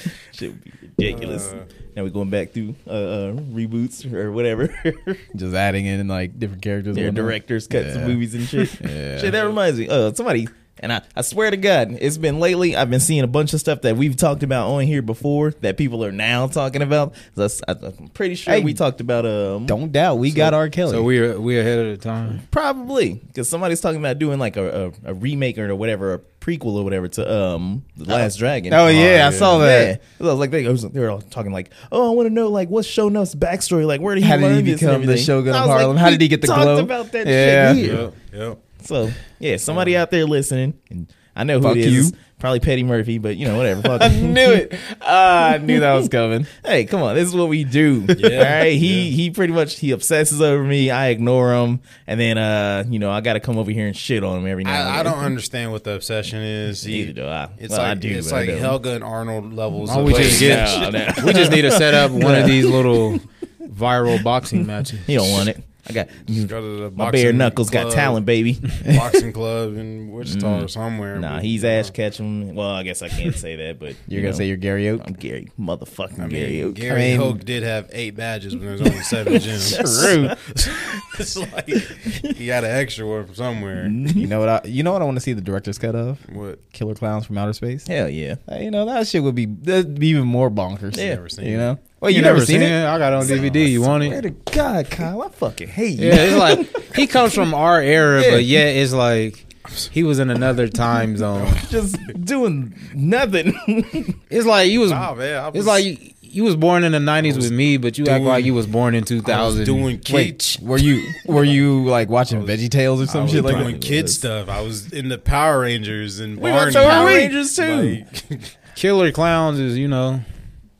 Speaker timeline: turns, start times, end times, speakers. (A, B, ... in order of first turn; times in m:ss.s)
0:00.3-0:05.2 A
0:01.0-0:01.7 B
0:05.3-0:09.4 C
0:06.9-0:19.8 A
0:18.5-0:18.8 C
0:19.7-0:21.1 C
0:20.9-0:22.4 D
0:22.5-0:38.0 A
0:28.1-0:30.0 C
0:28.9-0:29.6 B
0:34.2-0:38.0 C
0:37.6-0:38.1 D
0:37.8-0:38.6 B
0:38.8-0:44.6 A
0:39.7-0:40.0 B
0:41.6-0:42.2 C
0:44.0-0:46.5 C
0:45.7-0:55.3 A
0:48.2-0:49.1 B
0:54.6-1:01.1 B
0:56.8-0:58.8 A
0:59.8-1:05.5 D
1:00.0-1:03.2 A
1:05.0-1:08.8 A
1:06.2-1:11.9 B
1:10.2-1:17.0 A
1:14.1-1:15.0 C
1:16.2-1:24.0 B
1:16.9-1:17.4 C
1:19.3-1:20.7 A
1:19.7-1:20.4 C
1:21.8-1:22.3 A
1:23.8-1:24.3 A
1:24.1-1:27.9 C
1:26.3-1:26.6 B
1:27.9-1:28.4 A
1:28.5-1:32.8 C
1:30.9-1:31.2 A
1:30.9-1:31.7 B
1:32.1-1:34.2 D
1:33.1-1:33.8 B
1:33.2-1:37.4 A
1:36.0-1:41.6 D
1:38.2-1:38.6 A
1:41.4-1:44.2 A
1:44.3-1:50.4 D
1:44.8-1:45.8 B
1:47.2-1:48.5 B
1:49.2-1:50.6 B
1:50.6-1:54.1 C
1:51.2-1:51.7 B
1:52.3-1:58.5 B
1:53.2-1:54.2 A
1:56.4-1:58.0 A
1:56.6-1:57.3 C
1:58.8-2:00.2 D